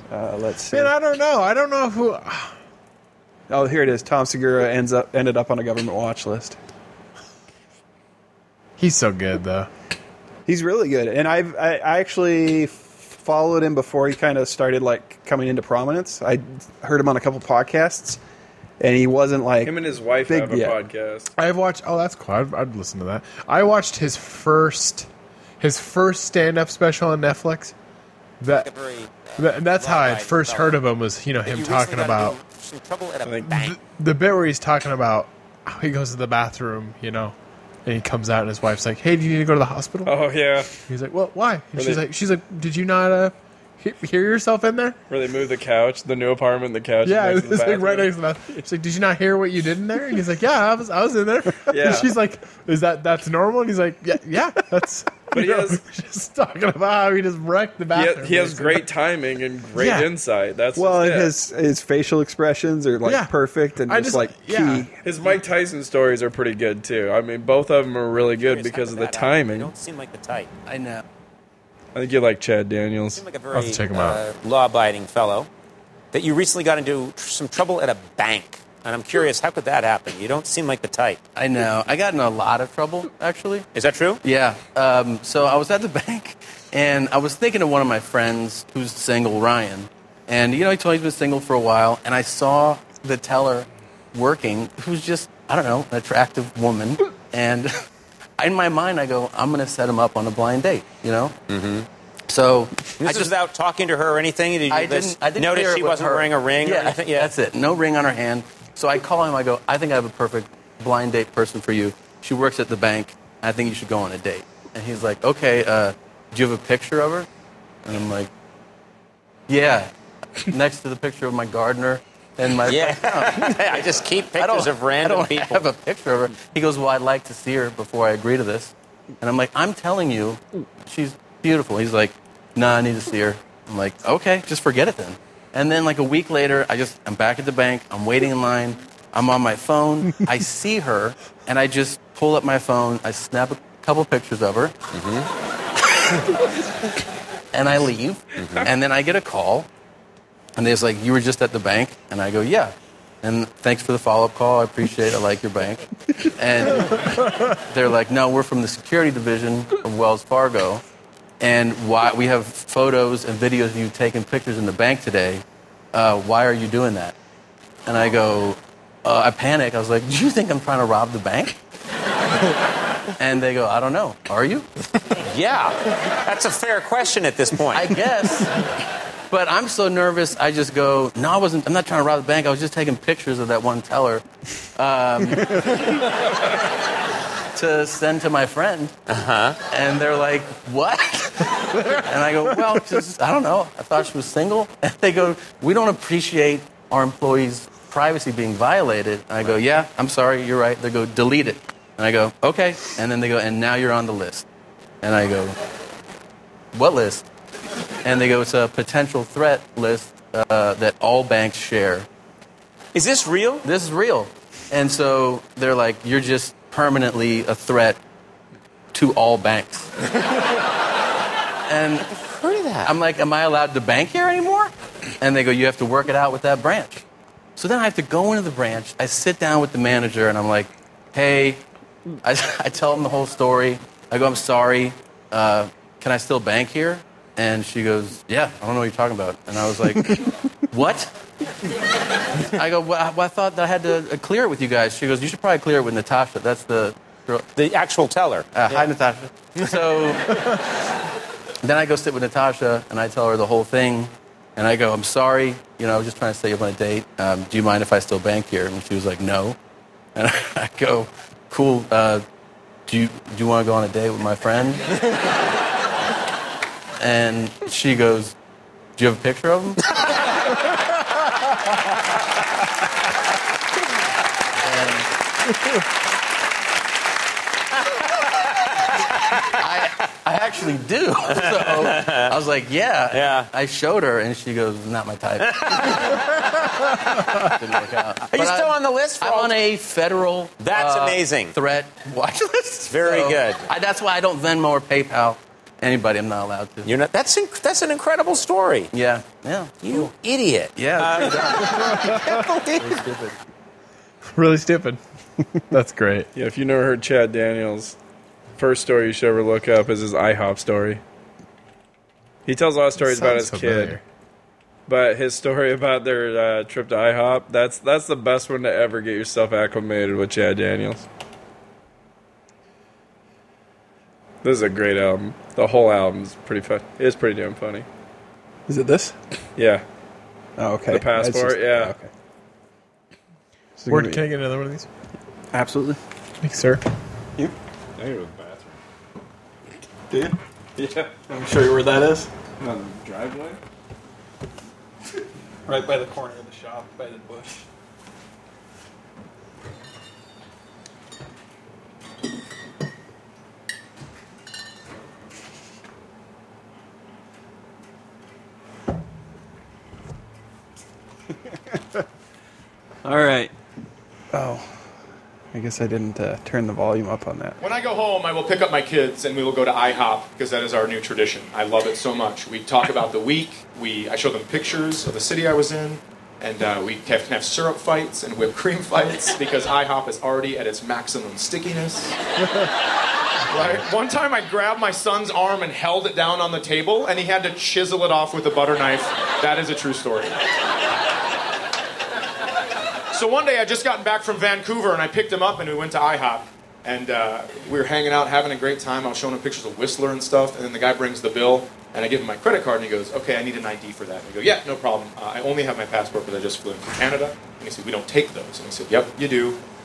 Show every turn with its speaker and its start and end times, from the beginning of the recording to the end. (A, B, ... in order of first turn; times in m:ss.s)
0:00.1-0:00.9 A
0:00.7-0:02.5 B
0:03.5-0:06.6 A
0:08.8-0:09.7 B
0:10.4-0:18.2 A
0:18.8-0:20.8 A
0:19.6-0:21.3 C
0:21.4-0:25.1 B
0:25.6-0:27.7 B
0:28.4-0:28.7 B
0:28.6-0:30.8 D
0:29.4-0:32.4 B
0:31.4-0:33.8 D
0:33.2-0:33.5 C
0:33.4-0:37.3 B
0:37.8-0:40.1 B
0:40.0-0:40.8 C
0:40.8-0:45.0 B
0:41.8-0:42.0 C
0:45.1-0:48.6 C
0:47.0-0:58.8 B
0:51.7-0:52.1 C
0:55.3-0:55.8 C
0:57.9-1:01.3 C
0:59.8-1:00.1 B
1:00.8-1:04.9 A
1:03.0-1:04.9 B
1:05.0-1:09.7 C
1:08.3-1:10.5 D
1:10.7-1:11.0 E
1:11.9-1:13.2 C
1:13.1-1:15.5 D
1:13.5-1:14.2 B
1:16.1-1:21.2 D
1:21.3-1:23.6 E
1:23.7-1:24.2 D
1:24.2-1:37.7 E
1:38.4-1:41.3 E
1:41.5-1:41.9 D
1:42.3-1:43.3 E
1:43.0-1:47.3 D
1:44.7-1:57.3 E
1:57.8-1:58.3 E
1:59.5-1:59.9 E
2:00.4-2:03.8 E
2:02.6-2:05.6 D
2:04.3-2:24.7 E
2:24.9-2:25.3 D
2:27.5-2:29.7 E
2:28.4-2:28.7 D
2:30.6-2:40.8 E
2:41.4-2:45.4 E
2:45.9-2:47.1 E
2:47.8-2:51.6 E
2:53.2-2:54.6 E
2:55.2-2:58.0 D
2:57.7-2:58.5 E
2:59.3-3:04.2 E
3:04.8-3:06.1 E
3:07.5-3:08.9 E
3:09.1-3:09.6 D
3:09.7-3:24.4 E
3:25.0-3:25.6 E
3:26.7-3:27.2 E
3:28.0-3:32.1 E
3:32.9-3:33.7 D
3:33.6-3:38.0 E
3:38.9-3:39.9 E
3:41.7-3:42.1 E
3:42.1-3:42.9 D
3:42.8-3:47.0 E
3:47.6-3:51.6 E
3:52.2-4:01.1 E
4:02.4-4:07.4 E
4:07.5-4:08.9 D
4:08.5-4:10.6 E
4:09.6-4:09.9 D
4:11.6-4:19.6 E
4:20.2-4:22.2 E
4:22.9-4:24.9 E
4:27.0-4:28.3 E
4:29.0-4:29.8 E
4:34.6-4:35.1 E
4:39.5-4:46.1 E
4:41.3-4:42.3 D
4:43.1-4:43.5 D
4:45.4-4:46.2 D
4:47.3-4:56.9 E
4:48.2-4:49.6 D
4:50.6-4:51.5 D
4:52.9-4:53.7 D
4:56.8-4:58.9 D
4:58.9-5:00.1 E
4:59.8-5:03.1 D
5:00.8-5:01.5 E
5:01.6-5:02.4 B
5:02.8-5:03.3 E
5:04.3-5:05.0 B
5:05.7-5:06.3 B
5:06.3-5:07.9 C
5:08.6-5:11.0 C
5:12.4-5:14.0 C
5:13.0-5:14.0 B
5:14.9-5:21.0 C
5:24.4-5:27.8 C
5:28.7-5:29.1 A
5:29.6-5:29.8 C
5:30.6-5:32.1 A
5:30.9-5:31.9 C
5:33.8-5:34.2 A
5:33.9-5:34.9 B
5:35.5-5:36.0 A
5:36.4-5:36.8 B
5:38.0-5:38.8 C
5:40.1-5:40.4 A
5:40.8-5:41.2 C
5:41.3-5:42.3 A
5:42.6-5:43.6 C
5:45.7-5:47.6 A
6:03.0-6:03.5 A
6:04.3-6:04.7 A
6:05.5-6:07.6 A
6:07.6-6:22.2 F
6:23.5-6:30.4 F
6:33.1-6:49.6 F